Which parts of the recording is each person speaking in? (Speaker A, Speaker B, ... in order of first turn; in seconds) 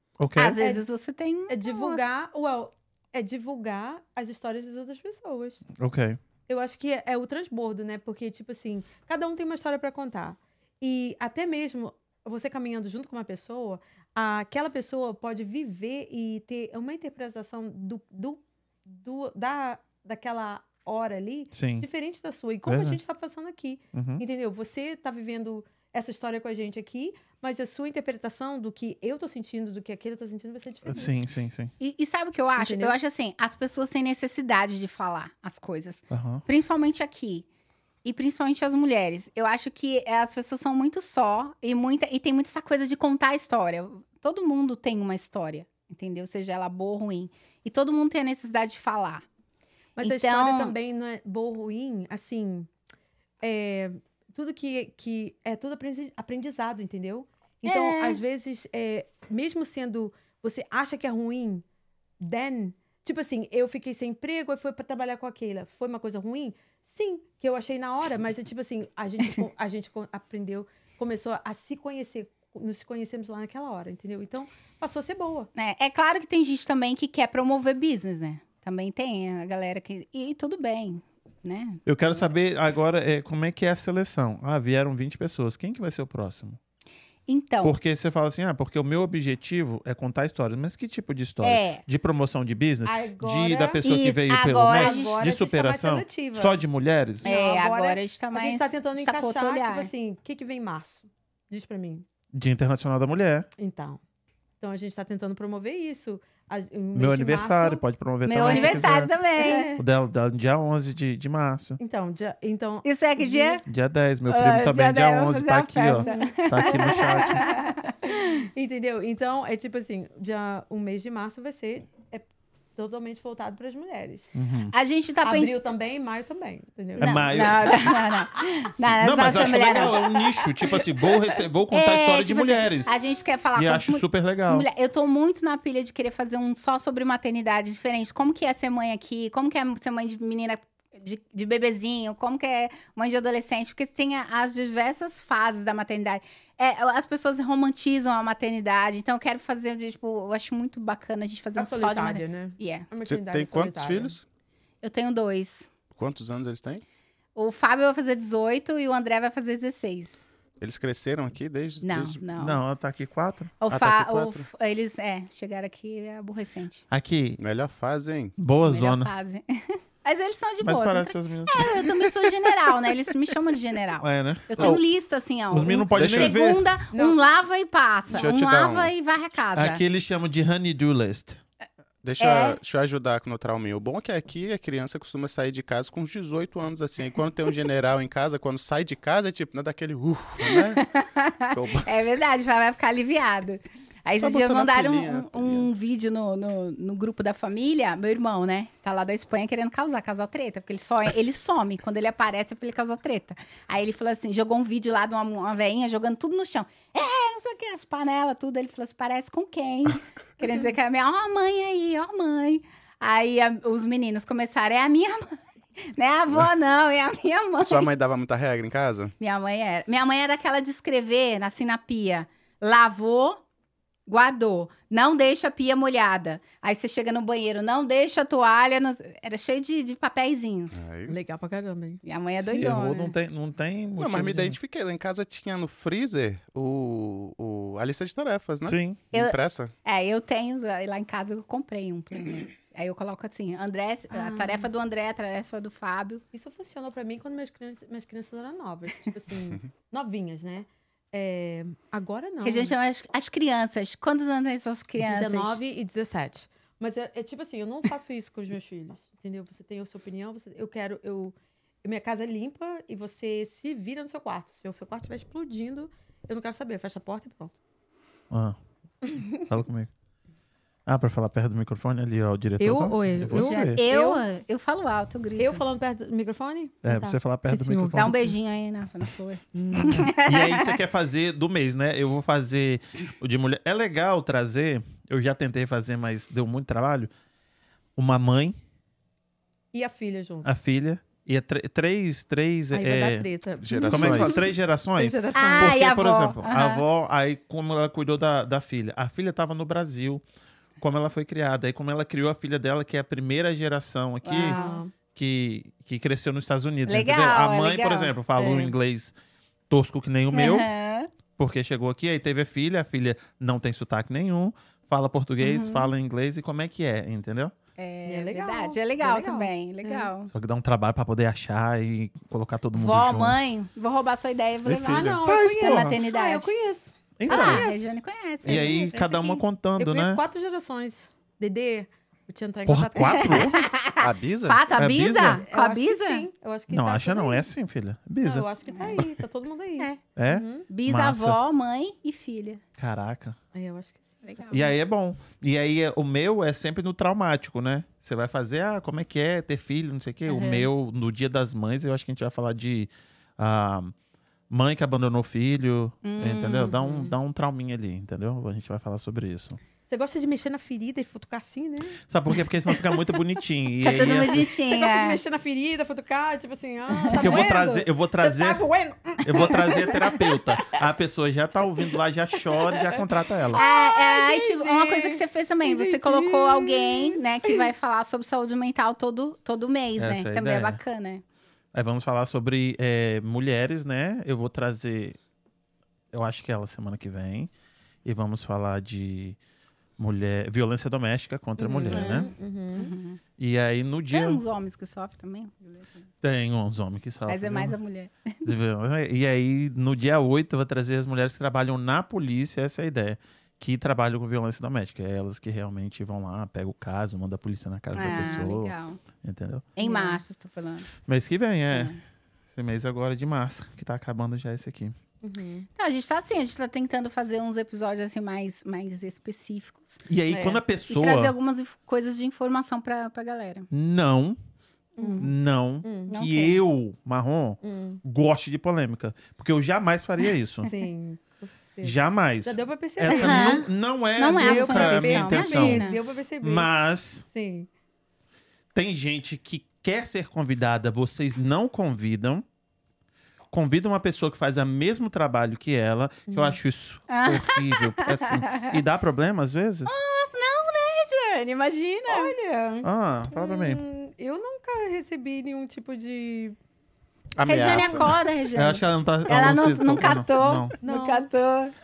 Speaker A: 0.2-0.6, 5.7-6.2, 21.5-21.9, 22.7-23.0, 23.9-24.2, 30.9-31.7, 36.1-36.4, 81.8-86.6, 87.6-97.3, 102.3-103.5, 106.9-109.1, 109.8-111.8, 113.7-117.5, 124.3-124.7, 127.0-128.0, 128.9-132.9, 133.5-134.7, 162.4-163.5, 166.9-167.4, 168.4-169.1, 170.6-172.2, 174.0-174.8, 175.5-176.6, 179.5-181.4, 232.4-234.6, 238.6-239.0, 268.3-268.6, 269.4-269.9, 270.9-273.8, 276.8-278.2, 279.9-287.1, 287.9-288.6, 290.4-293.2, 293.9-300.2, 300.8-304.6, 305.1-309.1, 309.7-310.7, 311.4-317.5, 320.3-323.4, 325.0-326.0, 327.2-327.7, 328.4-330.2, 332.7-333.7, 334.7-335.4, 336.7-339.1, 340.1-341.4, 342.8-343.4, 344.5-353.9, 354.5-359.6, 362.1-364.5, 367.1-368.6, 369.2-373.6, 380.0-380.8, 381.7-385.2, 386.1-387.5, 388.0-389.4, 390.0-392.3, 393.4-394.4, 396.2-397.8, 398.4-409.7, 411.0-411.9, 412.5-414.9, 420.1-421.4, 423.7-424.4, 425.2-430.7, 431.8-435.9, 436.4-437.2, 438.7-442.4, 443.5-449.9, 452.8-453.8, 457.5-460.7
Speaker B: 0.3-2.0, 31.8-37.5, 38.0-49.2, 50.0-50.7, 57.6-58.2, 75.5-81.8, 87.3-87.8, 91.4-91.8, 93.8-95.2, 97.2-99.9, 108.2-109.7, 112.8-113.6, 114.3-118.4, 124.7-125.6, 127.0-130.0, 131.7-152.9, 154.8-155.7, 157.3-160.2, 161.8-162.6, 163.6-166.8, 168.6-179.8, 182.2-182.6, 190.4-217.9, 219.2-223.4, 224.1-230.9, 232.0-233.1, 239.1-246.2, 252.4-255.6, 273.3-275.6, 277.9-280.8, 295.3-296.8, 304.2-304.8, 306.9-308.1, 310.3-311.1, 315.4-315.9, 317.8-320.3, 322.8-326.5, 327.3-329.4, 333.2-336.3, 340.7-342.6, 344.2-344.7, 350.3-350.7, 356.0-356.7, 363.8-365.2, 366.9-367.4, 373.5-381.2, 391.9-393.2, 394.1-396.1, 397.3-398.5, 407.9-409.0, 409.8-410.9, 411.7-412.0, 415.8-420.0, 420.9-423.7, 425.0-425.3, 426.1-426.6, 433.1-436.0, 447.1-448.8, 449.9-452.3, 457.4-461.7
Speaker C: 1.5-5.7, 6.5-31.1, 32.6-32.9, 50.0-52.7, 53.4-61.6, 62.2-75.5, 92.8-93.8, 94.7-96.6, 97.2-102.0, 103.6-104.0, 104.6-107.8, 108.4-109.8, 111.8-113.6, 116.0-124.3, 125.2-127.7, 130.1-131.4, 151.6-154.1, 176.9-177.2, 231.1-232.0, 244.1-244.7, 246.3-252.7, 255.0-267.5, 269.1-269.4, 272.6-274.2, 275.4-278.3, 279.5-280.1, 289.7-290.5, 292.7-295.8, 304.4-304.9, 308.4-308.7, 318.1-320.1, 324.8-327.9, 328.4-329.1, 329.8-333.5, 335.4-337.4, 338.2-340.7, 343.5-344.5, 356.6-357.1, 359.9-362.0, 362.7-363.2, 364.0-370.8, 372.4-377.6, 391.6-392.9, 409.8-410.2, 415.2-415.7, 420.3-420.6, 425.0-425.3, 425.8-426.2, 427.6-428.0, 430.6-433.6, 434.3-436.7, 437.3-437.7, 446.3-446.6, 452.1-456.6, 460.8-461.3
Speaker D: 153.1-154.2, 155.9-156.8, 160.6-162.2, 163.7-164.5, 167.4-168.3, 175.9-176.4, 178.1-178.9, 182.0-190.8, 191.5-191.9, 194.2-195.7, 217.6-219.1, 230.7-231.2, 234.0-239.7, 293.6-294.4, 324.7-325.2, 334.0-334.6, 457.4-458.1